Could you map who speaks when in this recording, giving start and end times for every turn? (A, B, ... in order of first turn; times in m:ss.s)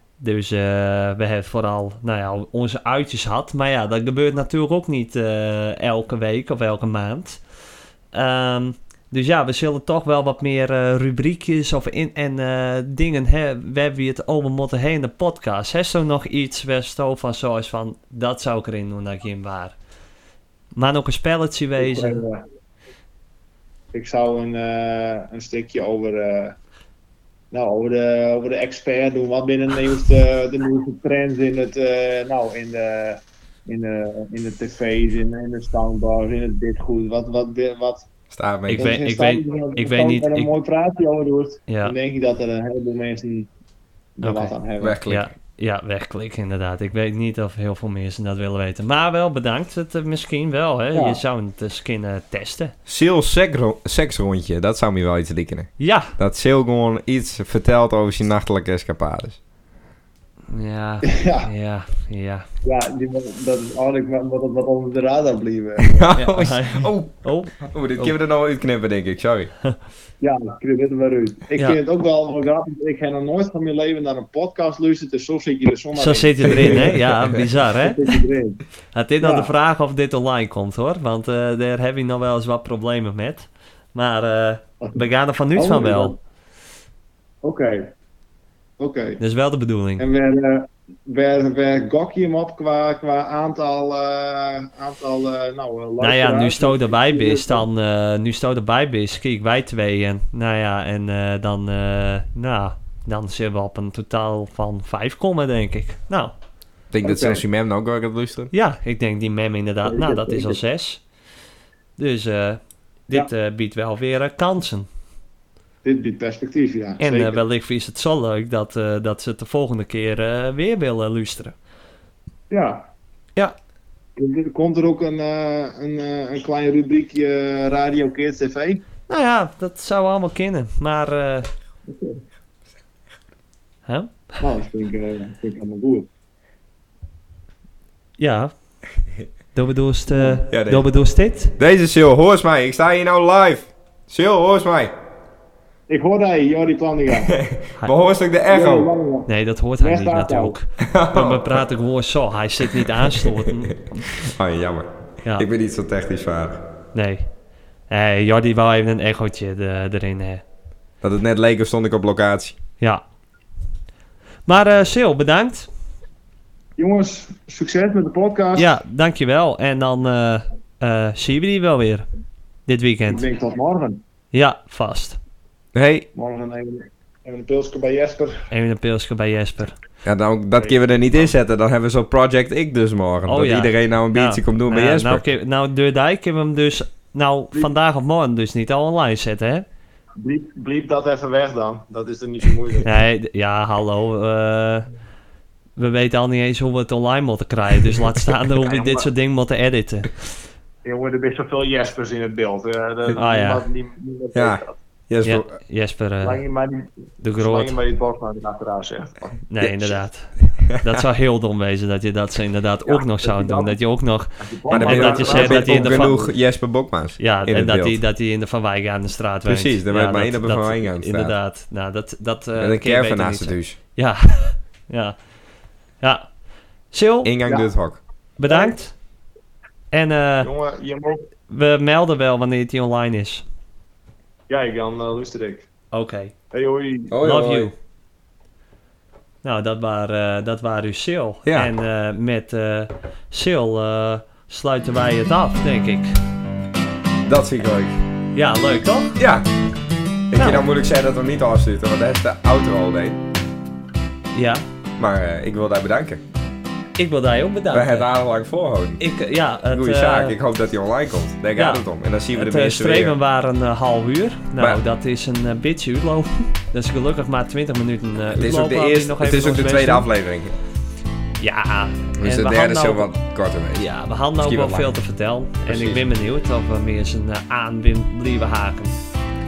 0:00.2-0:07.4 A
0:08.1-0:19.8 A
0:20.8-0:22.2 A
0:21.8-0:22.4 B
0:23.9-0:26.6 B
0:27.5-0:38.1 B
0:38.3-0:39.0 C
0:38.7-0:40.5 A
0:38.7-0:43.5 B
0:41.7-0:41.9 A
0:44.2-0:45.0 B
0:44.2-0:52.8 A
0:44.8-0:45.3 C
0:50.9-0:51.2 B
0:52.9-0:59.4 C
0:55.8-0:56.2 A
1:00.5-1:02.5 A
1:01.1-1:01.5 B
1:02.6-1:06.1 B
1:05.8-1:09.5 C
1:06.2-1:08.2 A
1:10.2-1:17.0 B
1:16.0-1:18.2 A
1:17.8-1:18.6 B
1:18.9-1:26.2 A
1:19.2-1:19.5 B
1:25.6-1:26.2 B
1:27.4-1:27.9 B
1:28.8-1:29.2 B
1:29.2-1:30.1 A
1:30.0-1:37.7 B
1:36.0-1:46.4 A
1:46.9-1:48.5 C
1:47.0-1:47.4 B
1:48.5-1:51.0 A
1:49.8-1:50.6 B
1:52.0-1:54.9 A
1:55.8-1:57.4 B
1:57.0-2:01.6 A
2:02.5-2:02.9 B
2:04.2-2:08.8 B
2:09.1-2:11.5 A
2:11.9-2:12.2 B
2:13.9-2:14.4 A
2:14.4-2:16.1 B
2:18.2-2:18.5 A
2:19.5-2:21.6 A
2:20.1-2:20.4 B
2:20.5-2:20.9 C
2:21.6-2:24.9 C
2:25.9-2:27.4 B
2:27.3-2:28.9 C
2:28.5-2:30.6 B
2:29.3-2:34.1 A
2:30.8-2:31.6 C
2:32.7-2:33.5 C
2:34.1-2:36.6 C
2:36.9-2:37.3 A
2:37.9-2:40.4 A
2:41.0-2:42.6 C
2:44.5-2:45.7 A
2:46.8-2:48.8 B
2:48.6-2:52.0 A
2:52.7-2:53.2 A
2:53.1-2:54.0 B
2:54.3-2:55.2 A
2:55.7-2:56.1 C
2:56.1-2:58.5 B
2:58.5-2:59.8 A
3:00.0-3:05.2 C
3:00.6-3:01.2 B
3:03.3-3:09.7 A
3:10.2-3:12.9 B
3:12.8-3:14.9 A
3:15.8-3:20.3 A
3:18.6-3:19.1 B
3:20.8-3:24.8 B
3:23.1-3:23.6 A
3:24.3-3:25.5 C
3:25.2-3:26.4 A
3:26.2-3:30.0 B
3:27.2-3:27.8 A
3:29.5-3:36.2 A
3:32.9-3:33.8 B
3:34.4-3:36.3 B
3:34.7-3:38.0 C
3:37.2-3:45.2 A
3:39.5-3:41.4 C
3:42.6-3:43.8 C
3:46.0-3:46.3 A
3:46.9-3:47.3 A
3:47.2-3:48.0 C
3:47.4-3:47.7 B
3:48.4-3:48.9 A
3:48.5-3:48.8 B
3:49.9-3:50.5 A
3:50.4-3:51.2 B
3:51.5-3:53.4 A
3:54.5-3:55.7 B
3:55.9-3:56.3 A
3:56.5-3:57.2 B
3:57.1-3:57.7 C
3:57.2-3:57.7 A
3:59.4-4:06.2 A
4:01.4-4:01.7 C
4:07.3-4:08.0 C
4:08.4-4:09.2 A
4:09.2-4:09.5 C
4:10.3-4:13.2 C
4:10.4-4:10.6 A
4:14.3-4:14.6 A
4:15.0-4:16.2 C
4:17.0-4:18.1 A
4:17.7-4:19.0 C
4:19.0-4:20.4 A
4:19.7-4:23.1 C
4:21.6-4:30.1 A
4:28.3-4:30.5 C
4:31.4-4:33.1 A
4:32.2-4:34.9 C
4:33.7-4:39.0 A
4:35.7-4:36.0 C